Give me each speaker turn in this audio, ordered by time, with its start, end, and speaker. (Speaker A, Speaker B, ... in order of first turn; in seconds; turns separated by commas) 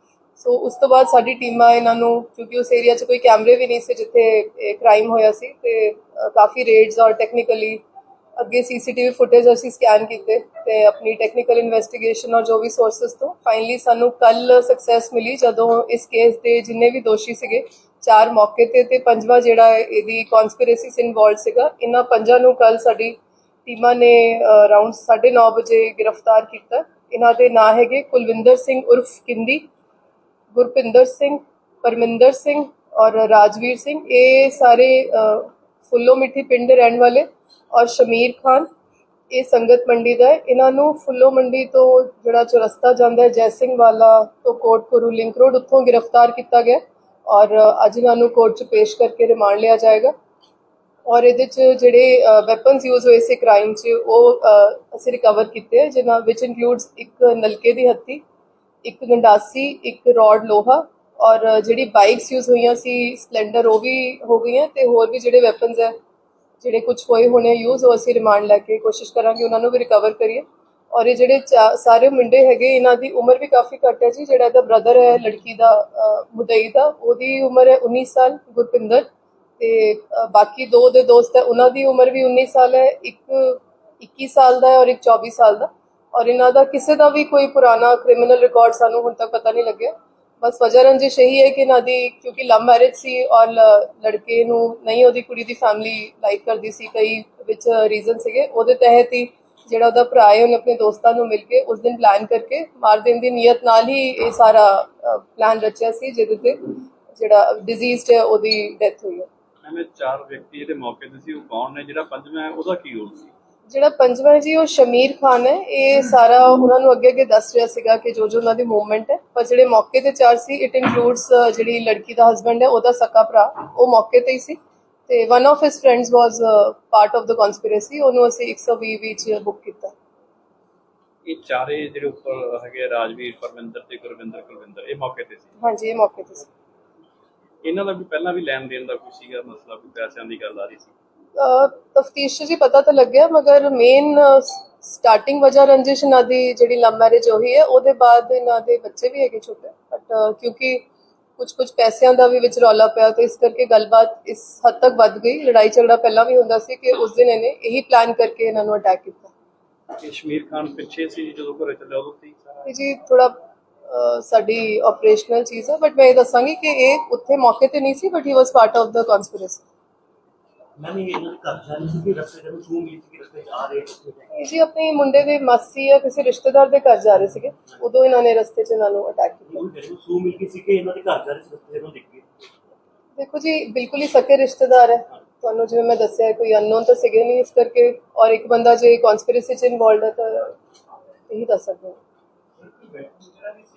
Speaker A: 0.4-7.8, Speaker A: 8.4-29.7, Speaker A: 30.5-38.7, Speaker A: 39.3-50.1, Speaker A: 51.1-58.2, Speaker A: 58.8-66.0, Speaker A: 66.6-79.1, Speaker A: 79.6-109.3, Speaker B: 109.6-113.3, Speaker A: 113.7-129.9, Speaker B: 131.2-135.5, Speaker A: 135.6-136.5, Speaker B: 137.6-140.9, Speaker A: 141.4-150.9, Speaker A: 151.4-159.3, Speaker B: 160.0-162.7, Speaker A: 162.7-169.7, Speaker C: 170.8-174.3, Speaker A: 174.3-179.7, Speaker C: 179.5-182.3, Speaker A: 183.2-190.6, Speaker A: 191.3-192.0